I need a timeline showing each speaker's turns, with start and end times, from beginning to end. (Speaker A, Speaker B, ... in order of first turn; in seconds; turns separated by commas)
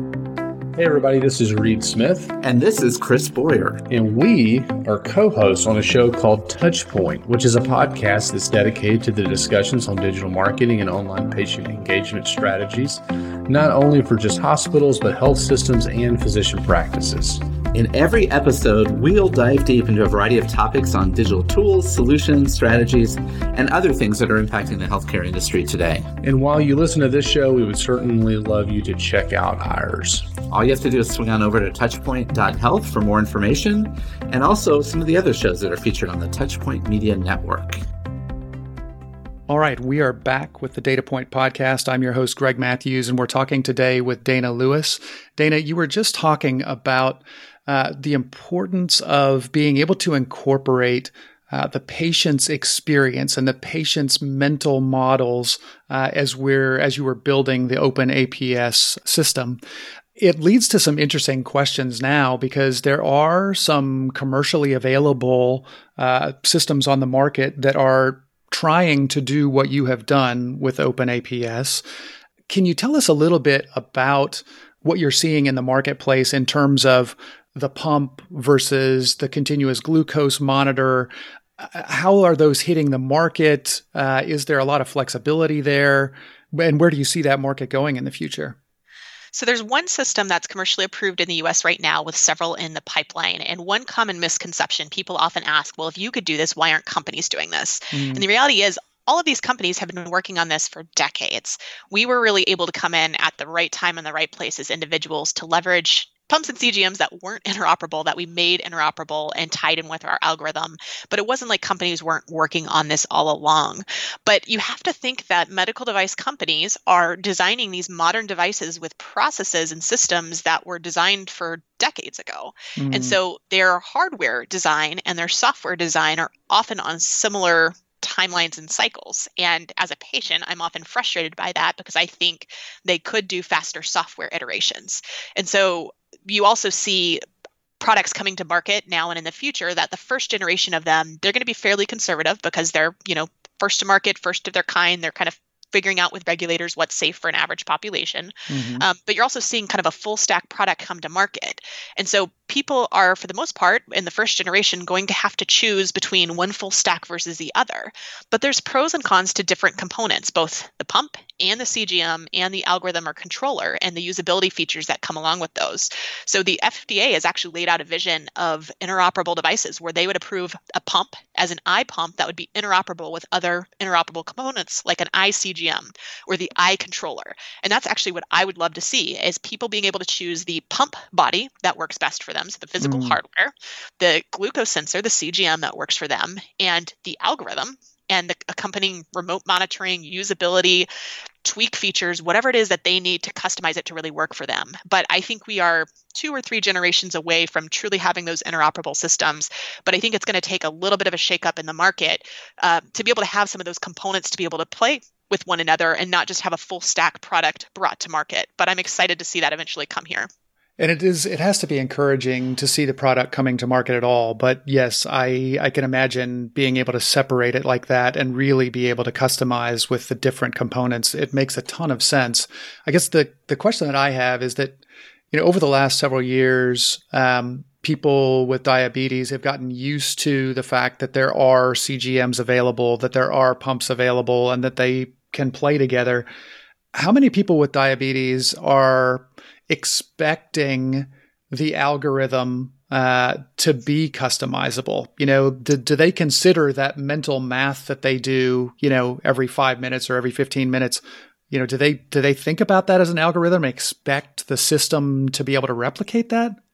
Speaker A: 0.8-2.4, Speaker B: 2.4-3.8, Speaker A: 3.9-17.4, Speaker B: 17.7-26.1, Speaker A: 26.2-30.3, Speaker B: 30.5-37.8, Speaker C: 39.5-59.6, Speaker C: 60.2-71.8, Speaker C: 72.5-88.6, Speaker D: 89.3-137.2, Speaker C: 97.9-98.3, Speaker C: 122.8-123.2, Speaker D: 137.8-190.9, Speaker C: 148.5-148.9, Speaker C: 182.8-183.2, Speaker D: 191.4-210.3, Speaker C: 210.8-224.8, Speaker C: 225.3-236.3, Speaker C: 236.9-256.6